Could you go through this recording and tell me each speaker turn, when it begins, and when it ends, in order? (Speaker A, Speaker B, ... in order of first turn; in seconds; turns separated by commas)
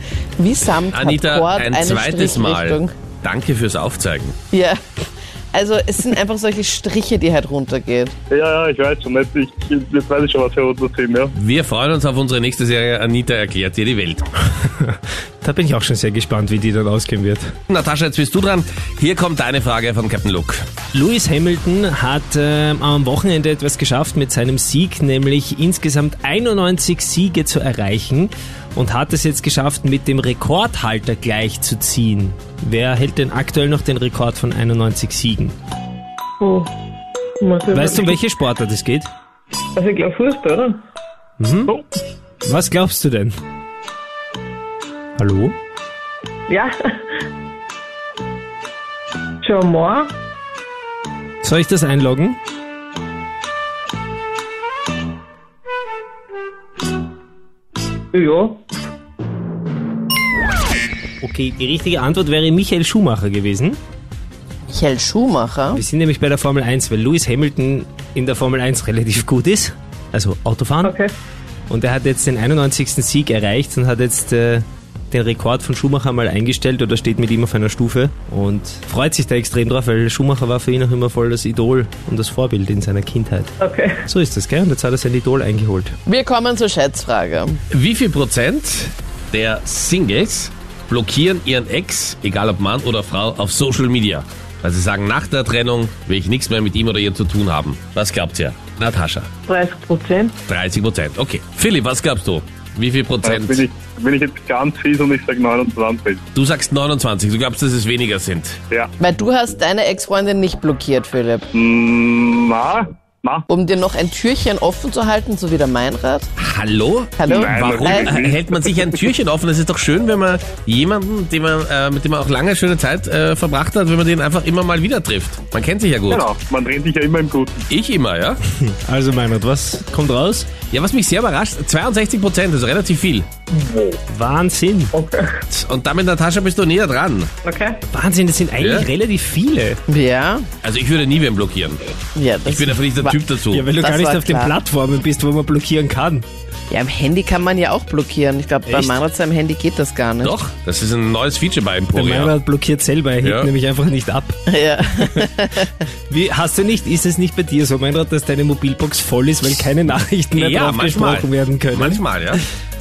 Speaker A: 0.4-2.9, Speaker B: 0.9-4.3, Speaker A: 4.5-4.8, Speaker A: 5.5-8.1, Speaker C: 8.3-11.3, Speaker B: 11.3-14.2, Speaker D: 14.8-17.5, Speaker B: 17.7-20.6, Speaker D: 20.9-35.5, Speaker E: 36.4-36.7, Speaker E: 37.4-38.2, Speaker D: 37.7-39.1, Speaker E: 39.7-40.8, Speaker D: 41.4-41.8, Speaker D: 42.4-43.4, Speaker D: 45.2-45.5, Speaker E: 49.4-50.1, Speaker D: 51.4-52.4, Speaker E: 58.1-58.6, Speaker D: 61.2-63.8, Speaker A: 64.7-65.8, Speaker D: 65.7-71.0, Speaker E: 70.8-71.1, Speaker D: 71.7-85.9, Speaker E: 83.6-84.0, Speaker A: 86.0-87.6, Speaker B: 87.7-99.3, Speaker E: 99.5-100.3, Speaker B: 100.5-103.7, Speaker C: 103.2-106.2, Speaker B: 106.3-108.6, Speaker A: 109.0-111.5, Speaker C: 111.5-113.5, Speaker A: 113.5-116.3, Speaker B: 116.4-126.2, Speaker A: 117.2-118.1, Speaker C: 117.2-119.0, Speaker C: 126.1-127.6, Speaker B: 127.7-128.4, Speaker D: 128.6-130.5, Speaker B: 130.7-133.3, Speaker D: 134.1-134.9, Speaker E: 134.9-135.4, Speaker B: 135.5-137.3, Speaker E: 137.4-137.8, Speaker D: 137.9-139.8, Speaker B: 138.6-138.9, Speaker A: 139.9-140.5, Speaker B: 140.6-141.9, Speaker A: 142.1-144.5, Speaker B: 142.4-143.7, Speaker D: 143.5-146.2, Speaker A: 146.7-150.4, Speaker D: 148.7-149.0, Speaker B: 150.2-152.3, Speaker D: 151.9-154.3, Speaker B: 153.2-153.5, Speaker A: 154.5-155.7, Speaker D: 156.1-162.4, Speaker B: 160.3-162.4